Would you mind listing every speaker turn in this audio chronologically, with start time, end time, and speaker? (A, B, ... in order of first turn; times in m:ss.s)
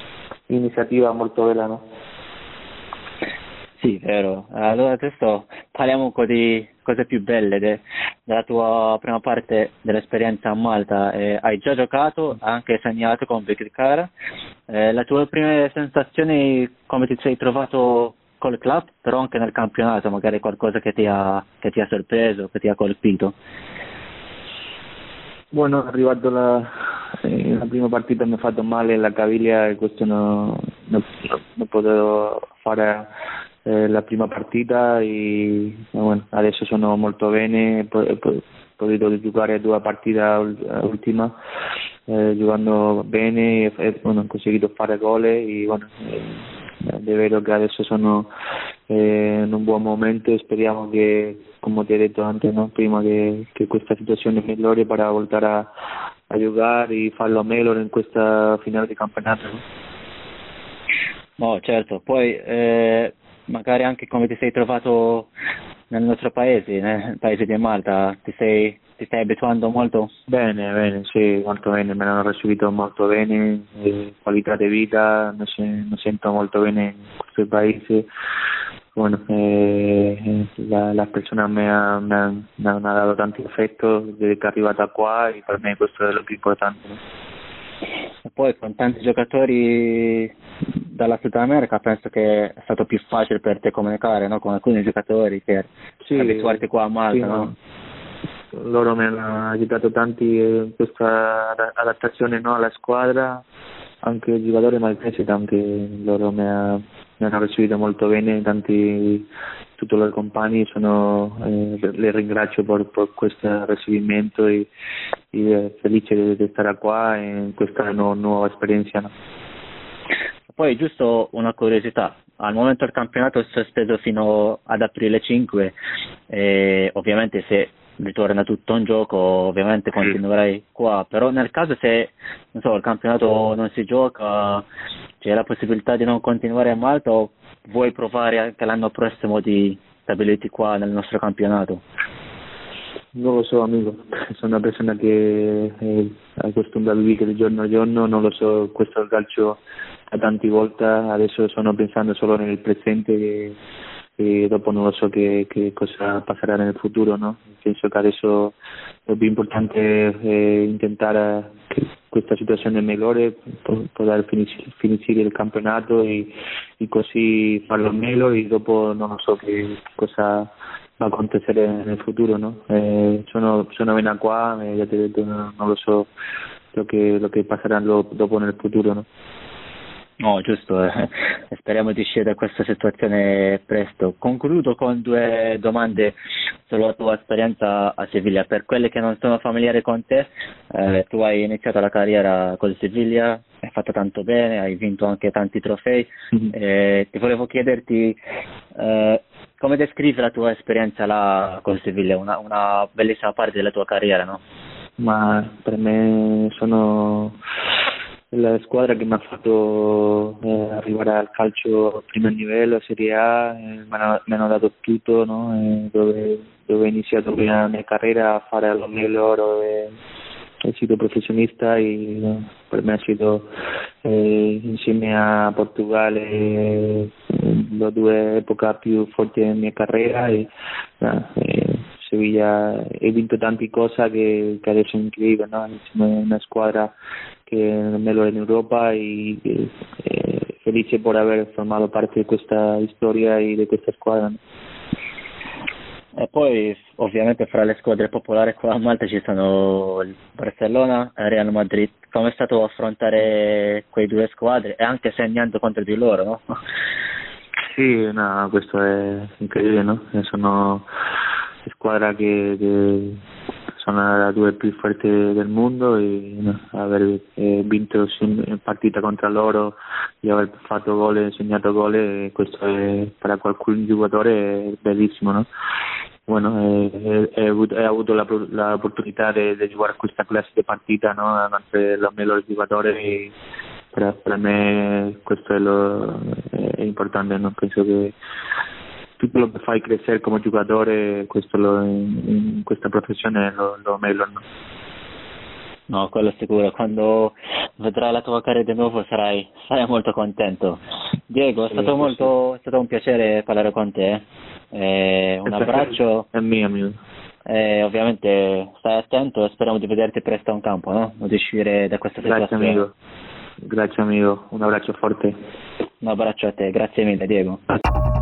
0:00.5-0:01.8 A
0:03.8-0:14.1 B
0:14.7-0:23.3 B
0:25.5-0:26.7 A
0:27.2-0:33.1 A
0:33.7-0:41.3 A
0:42.1-0:48.3 A
0:48.9-0:55.7 A
0:56.3-0:59.6 A
1:01.4-1:05.3 B
1:05.9-1:10.1 B
1:10.3-1:18.1 A
1:18.9-1:27.0 A
1:28.3-1:30.3 B
1:30.9-1:37.5 B
1:36.0-1:37.5 A
1:38.5-1:43.4 A
1:44.0-1:54.7 A
1:55.3-1:59.1 A
2:00.5-2:05.7 B
2:06.3-2:14.6 B
2:15.2-2:21.8 B
2:23.1-2:29.6 A
2:30.1-2:33.6 A
2:34.2-2:38.5 A
2:39.1-2:56.1 A
2:56.7-2:59.1 A
3:00.2-3:06.1 B
3:06.7-3:18.2 B
3:18.8-3:24.4 B
3:25.0-3:27.4 A
3:28.3-3:39.9 A
3:40.6-3:43.5 A
3:44.0-3:50.5 A
3:51.0-3:56.9 A
3:57.4-4:04.4 A
4:06.2-4:16.4 B
4:17.7-4:20.9 A
4:21.6-4:23.2 A
4:23.8-4:35.5 A
4:36.3-4:43.3 A
4:43.9-4:48.2 A
4:49.2-4:54.4 A
4:55.9-5:06.3 B
5:01.7-5:02.3 A
5:05.5-5:06.9 A
5:07.5-5:12.8 B
5:12.2-5:12.9 A
5:13.6-5:15.3 A
5:16.0-5:17.6 B